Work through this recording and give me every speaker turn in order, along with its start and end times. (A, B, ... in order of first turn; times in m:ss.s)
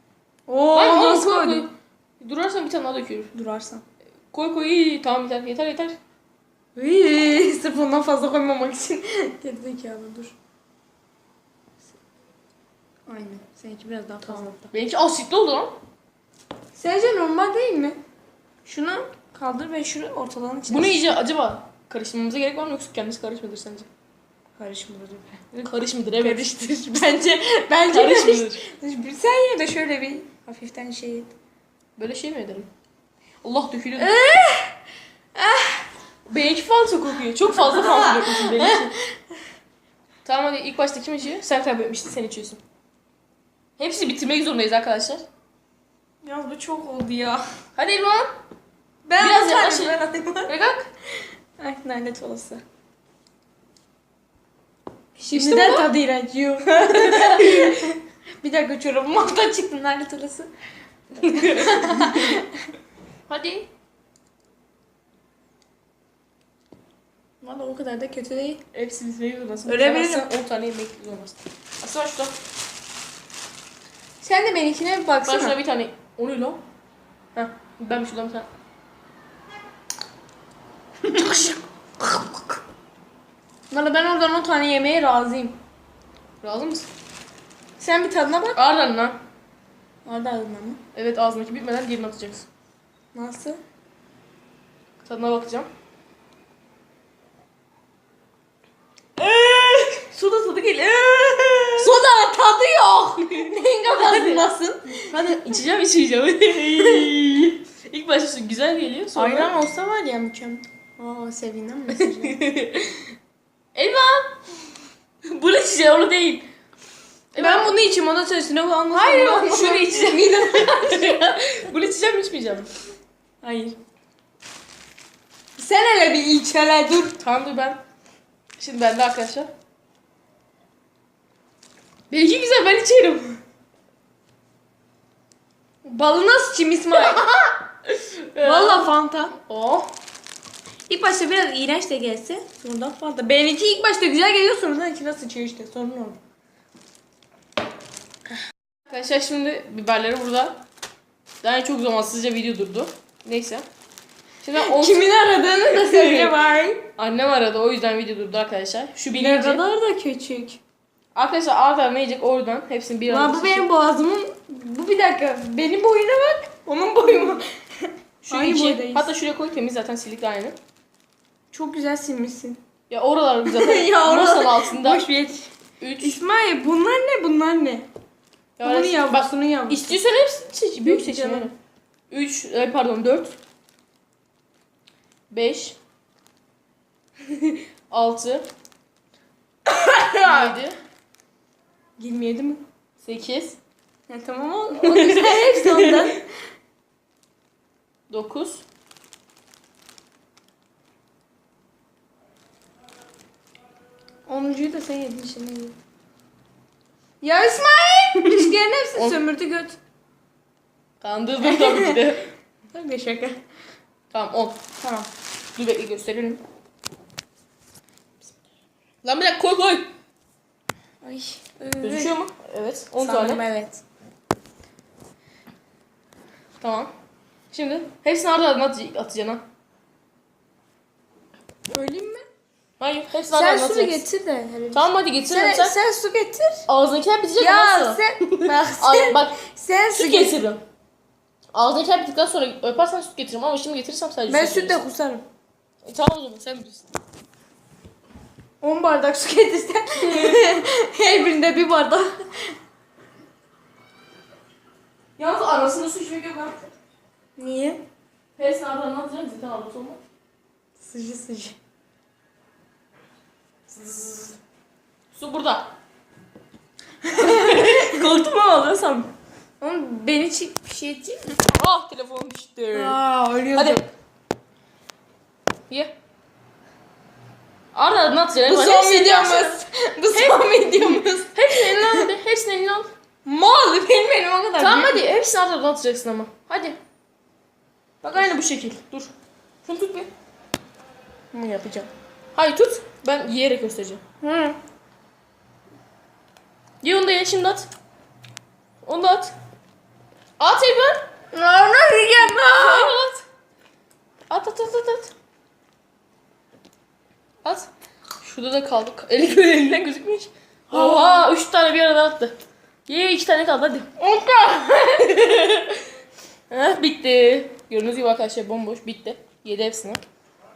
0:00.5-0:01.7 A
0:00.7-0:03.3 B
0:03.3-0:03.8 A
0:04.3-0:06.0 B
0:06.8-0:10.4 A
0:13.1-0:14.6 A
0:14.2-0:15.8 B
0:16.7-0:18.0 A
0:18.6-0:21.2 A
0:20.7-0:23.9 B
0:24.6-0:25.4 A
0:25.5-0:26.7 B
0:26.2-0:31.3 A
0:27.9-0:28.6 B
0:32.0-0:32.7 B
0:33.4-0:34.2 B
0:34.0-0:34.8 A
0:35.4-0:35.9 A
0:36.3-0:39.0 B
0:37.6-0:39.2 A
0:40.2-0:42.6 B
0:43.8-0:45.2 B
0:46.2-0:47.4 A
0:47.8-0:48.3 B
0:49.0-0:50.5 A
0:49.2-0:50.9 B
0:51.6-0:52.6 A
0:55.2-0:55.9 B
0:55.3-1:00.5 A
0:56.6-0:57.8 B
1:01.2-1:02.5 A
1:01.2-1:02.4 B
1:03.3-1:03.7 B
1:07.4-1:08.6 A
1:08.7-1:12.4 B
1:09.6-1:10.3 A
1:14.2-1:15.6 A
1:15.2-1:16.6 B
1:17.3-1:18.5 B
1:21.1-1:21.6 B
1:21.2-1:21.5 A
1:23.7-1:25.6 A
1:26.4-1:26.9 B
1:27.8-1:28.6 A
1:28.5-1:29.2 B
1:30.0-1:30.8 A
1:30.9-1:32.5 B
1:33.1-1:33.6 A
1:35.0-1:35.7 B
1:39.2-1:41.9 B
1:41.8-1:45.4 A
1:43.2-1:44.5 B
1:45.1-1:49.6 B
1:49.2-1:52.4 A
1:51.9-1:53.1 B
1:53.8-1:54.4 B
1:55.2-1:56.5 B
1:57.3-1:57.8 B
1:57.4-2:01.2 A
1:58.9-2:02.7 B
2:03.4-2:03.8 A
2:05.6-2:07.2 A
2:07.2-2:07.8 B
2:08.6-2:09.5 B
2:12.1-2:13.4 B
2:15.8-2:17.2 A
2:16.9-2:18.9 B
2:18.4-2:19.4 A
2:19.4-2:19.9 B
2:20.9-2:26.2 A
2:28.9-2:30.6 B
2:31.4-2:33.7 B
2:34.4-2:36.4 B
2:34.5-2:36.9 A
2:37.0-2:39.6 B
2:39.1-2:40.6 A
2:41.2-2:43.7 B
2:43.1-2:47.4 A
2:48.2-2:49.1 A
2:48.2-2:50.6 B
2:51.5-2:52.6 A
2:52.9-2:55.1 B
2:53.5-2:57.9 A
2:55.8-2:56.2 B
2:58.6-3:01.5 B
2:58.6-3:00.0 A
3:00.8-3:01.5 A
3:02.1-3:03.4 B
3:05.3-3:05.8 B
3:07.3-3:08.5 B
3:09.7-3:10.6 A
3:10.2-3:10.8 B
3:12.0-3:12.6 A
3:13.0-3:13.6 B
3:14.1-3:16.2 A
3:14.7-3:16.1 B
3:18.1-3:18.6 B
3:24.3-3:25.8 A
3:27.2-3:29.8 A
3:29.0-3:29.2 B
3:31.0-3:32.3 B
3:31.4-3:32.0 A
3:32.7-3:33.4 A
3:34.1-3:34.6 B
3:34.8-3:35.1 A
3:35.6-3:36.4 B
3:39.0-3:39.9 B
3:41.0-3:42.1 A
3:41.8-3:43.4 B
3:43.0-3:43.8 A
3:46.6-3:46.9 B
3:47.5-3:49.4 B
3:51.7-3:52.2 A
3:52.8-3:54.0 B
3:53.3-3:56.7 A
3:54.7-3:55.8 B
3:56.7-3:59.4 B
3:57.4-4:00.4 A
3:59.9-4:00.6 B
4:01.5-4:04.8 B
4:04.3-4:05.2 A
4:05.8-4:06.9 B
4:08.6-4:12.5 A
4:10.0-4:10.6 B
4:15.2-4:16.6 B
4:17.4-4:17.8 A
4:18.4-4:20.0 B
4:20.8-4:21.6 A
4:23.7-4:24.4 B
4:25.1-4:25.7 B
4:27.0-4:28.1 A
4:27.1-4:29.1 B
4:29.6-4:31.4 A
4:31.4-4:33.0 B
4:32.7-4:33.8 A
4:33.5-4:33.8 B
4:35.7-4:35.9 B
4:37.7-4:39.6 B
4:38.4-4:42.1 A
4:40.1-4:42.9 B
4:43.2-4:45.0 A
4:44.6-4:46.8 B
4:48.0-4:49.1 B
4:49.6-4:50.1 B
4:51.3-4:51.9 A
4:52.4-4:54.0 B
4:54.2-4:54.6 A
4:56.8-4:57.7 B
4:58.8-4:59.4 B
5:00.4-5:01.1 B
5:01.3-5:03.0 A
5:02.2-5:03.2 B
5:04.3-5:05.1 B
5:07.4-5:07.7 B
5:08.2-5:12.4 B
5:10.7-5:11.3 A
5:12.9-5:14.0 B
5:14.0-5:15.1 A
5:15.0-5:15.8 B
5:16.5-5:20.0 B